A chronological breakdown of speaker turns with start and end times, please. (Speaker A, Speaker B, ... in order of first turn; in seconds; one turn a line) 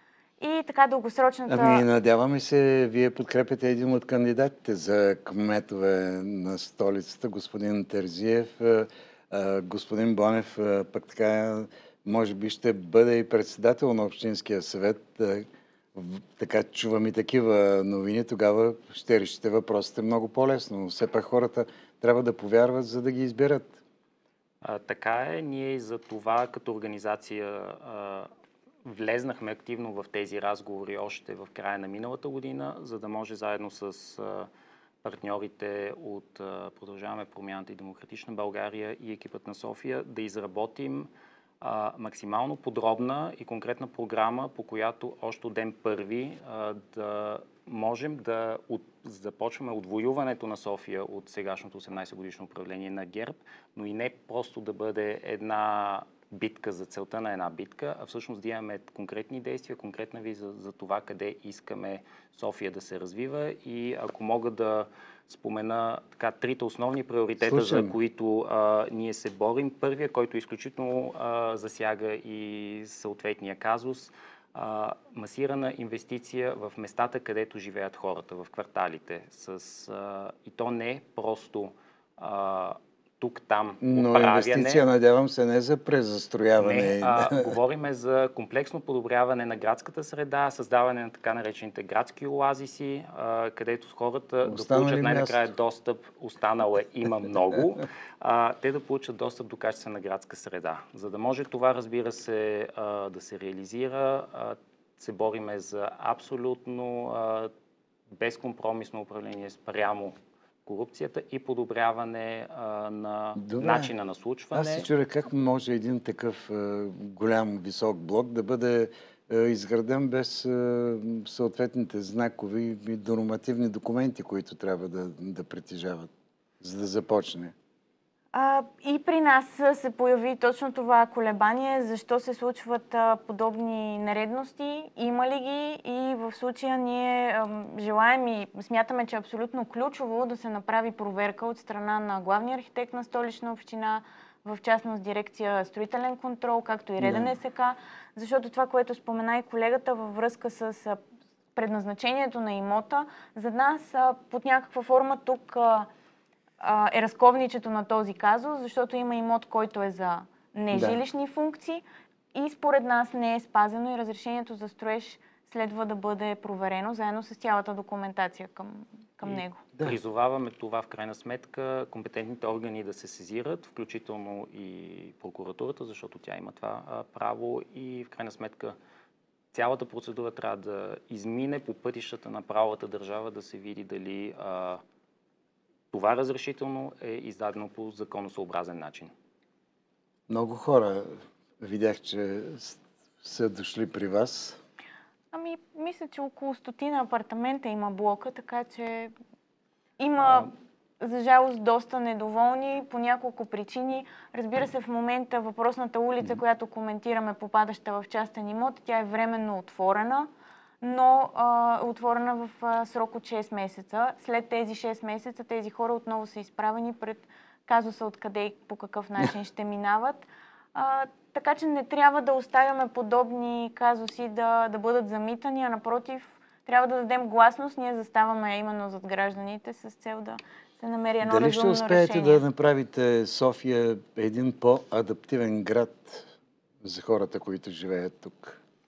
Speaker A: 0.4-1.9
Speaker B: 1.5-23.8
Speaker C: 24.6-28.3
Speaker C: 28.9-34.5
Speaker C: 35.0-41.1
Speaker C: 41.6-84.8
Speaker B: 67.4-68.0
Speaker B: 83.8-87.5
Speaker C: 86.6-107.5
Speaker B: 94.4-95.4
Speaker C: 108.1-114.9
Speaker B: 113.4-113.9
Speaker B: 114.5-126.1
Speaker B: 126.6-127.5
Speaker A: 128.3-151.0
Speaker B: 147.0-147.3
Speaker A: 151.6-155.9
Speaker A: 156.6-161.8
Speaker B: 160.7-161.0
Speaker A: 162.3-169.6
Speaker C: 169.2-178.8
Speaker C: 179.5-184.8
Speaker C: 185.9-189.1
Speaker B: 190.3-194.6
Speaker A: 195.3-199.1
Speaker A: 200.0-210.3
Speaker A: 210.8-232.4
Speaker B: 231.2-236.3
Speaker B: 236.8-238.6